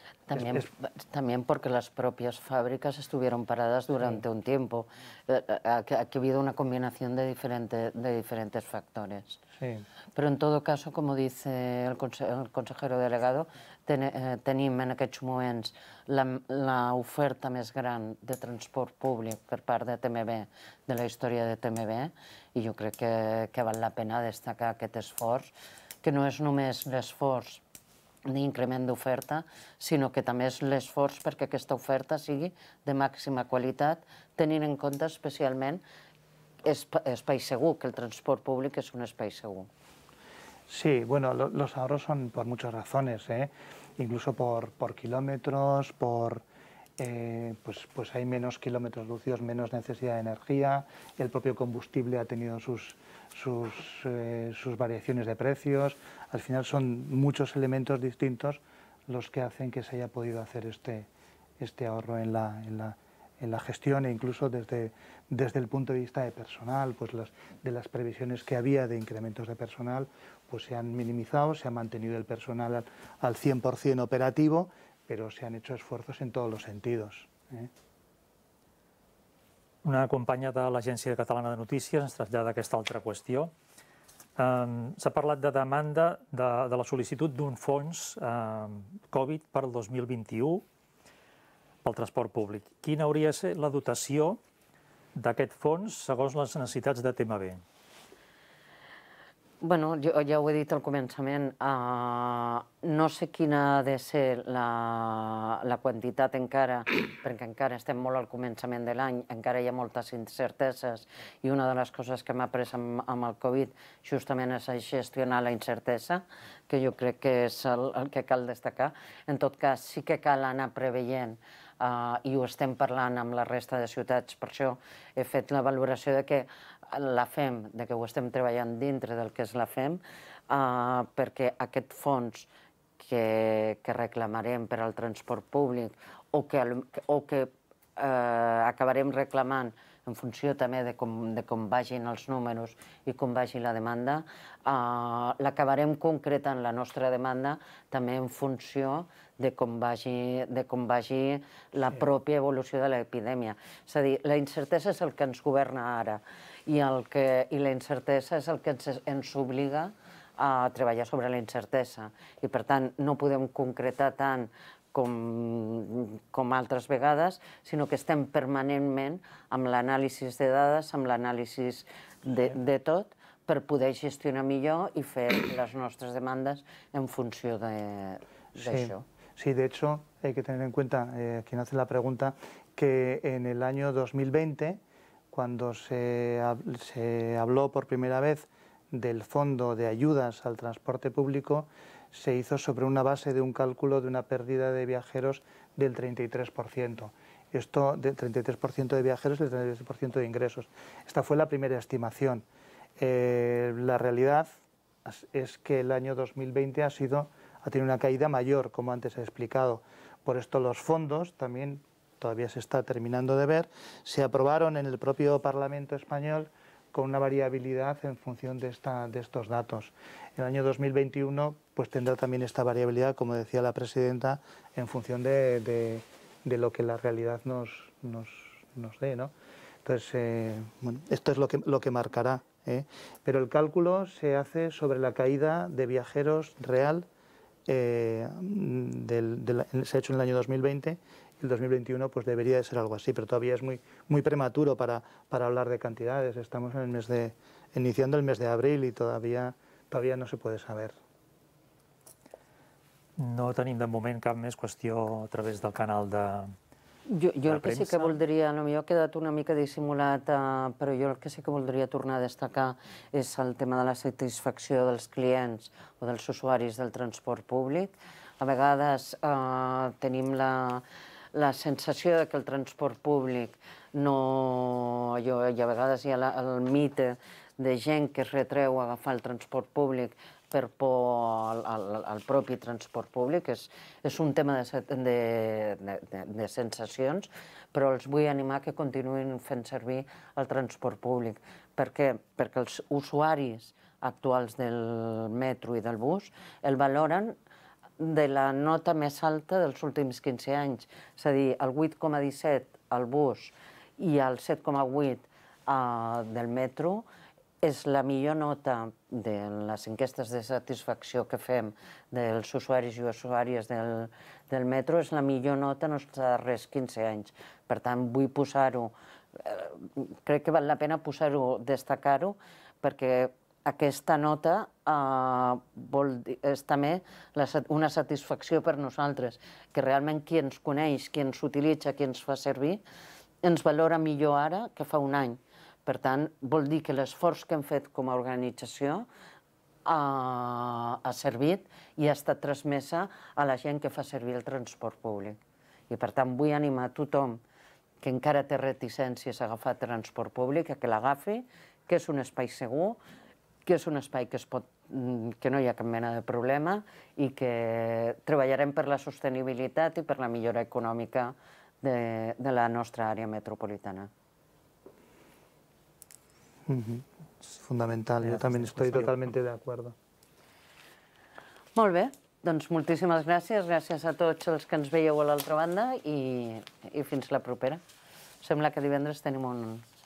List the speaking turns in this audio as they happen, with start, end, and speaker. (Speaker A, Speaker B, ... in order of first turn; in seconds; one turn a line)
Speaker A: 0.3-9.4
Speaker B: 0.3-0.7
Speaker B: 9.6-9.8
Speaker A: 10.1-25.5
Speaker A: 26.0-27.6
Speaker A: 28.3-35.8
Speaker A: 36.6-39.7
Speaker B: 40.7-46.4
Speaker B: 47.0-61.1
Speaker B: 61.6-77.7
Speaker C: 79.8-83.5
Speaker C: 84.4-90.6
Speaker C: 91.8-94.4
Speaker C: 95.2-97.6
Speaker A: 99.6-132.5
Speaker A: 133.0-179.1
Speaker B: 178.6-184.8
Speaker B: 185.3-202.4
Speaker B: 203.0-204.5
Speaker B: 205.1-229.3
Speaker B: 229.8-237.1
Speaker B: 237.7-251.0
Speaker C: 253.2-256.6
Speaker A: 257.1-297.4
Speaker C: 257.5-258.2
Speaker A: 298.0-307.1
Speaker A: 307.6-332.8
Speaker A: 333.4-339.1
Speaker A: 339.9-345.4
Speaker A: 345.9-347.4
Speaker A: 348.0-353.0
Speaker A: 353.6-364.1
Speaker B: 366.7-369.9
Speaker C: 368.2-369.1
Speaker A: 371.8-377.8
Speaker A: 378.4-379.9